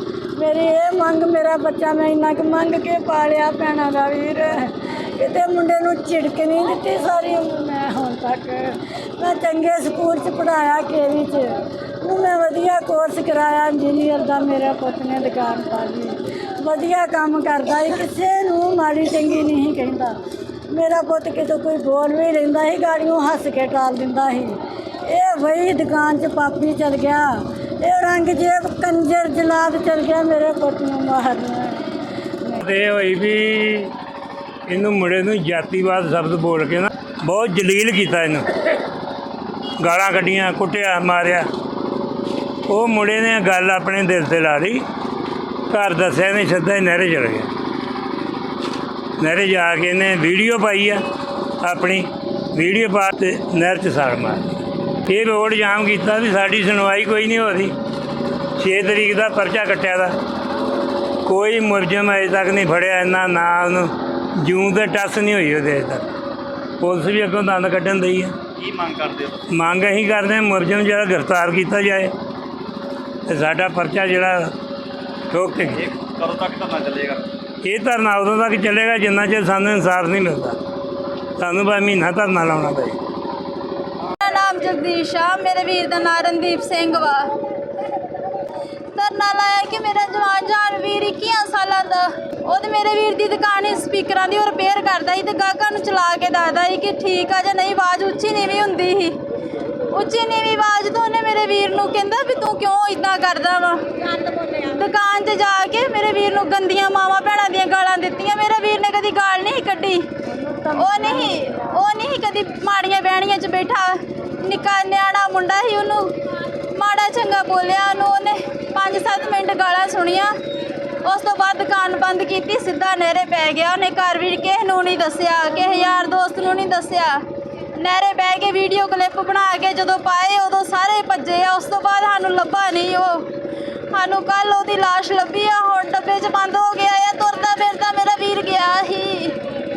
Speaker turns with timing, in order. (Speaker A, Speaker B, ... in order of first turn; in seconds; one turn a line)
Speaker A: 0.4-20.1
Speaker A: 20.7-24.6
Speaker A: 25.1-31.9
Speaker B: 32.6-33.9
Speaker B: 34.7-38.5
Speaker B: 39.8-41.5
Speaker B: 42.7-44.8
Speaker B: 45.7-47.5
Speaker B: 49.2-51.0
Speaker B: 51.6-57.7
Speaker B: 58.6-60.1
Speaker B: 61.2-66.0
Speaker B: 66.8-68.4
Speaker C: 68.6-69.4
Speaker B: 69.5-72.1
Speaker B: 73.3-74.5
Speaker B: 75.3-75.9
Speaker C: 76.0-77.2
Speaker B: 77.6-80.6
Speaker B: 81.4-83.0
Speaker D: 84.2-87.3
Speaker D: 89.0-99.2
Speaker D: 99.9-110.0
Speaker A: 110.3-111.8
Speaker D: 110.8-116.1
Speaker D: 116.7-120.3
Speaker D: 121.0-127.2
Speaker D: 127.8-133.3
Speaker D: 133.9-139.4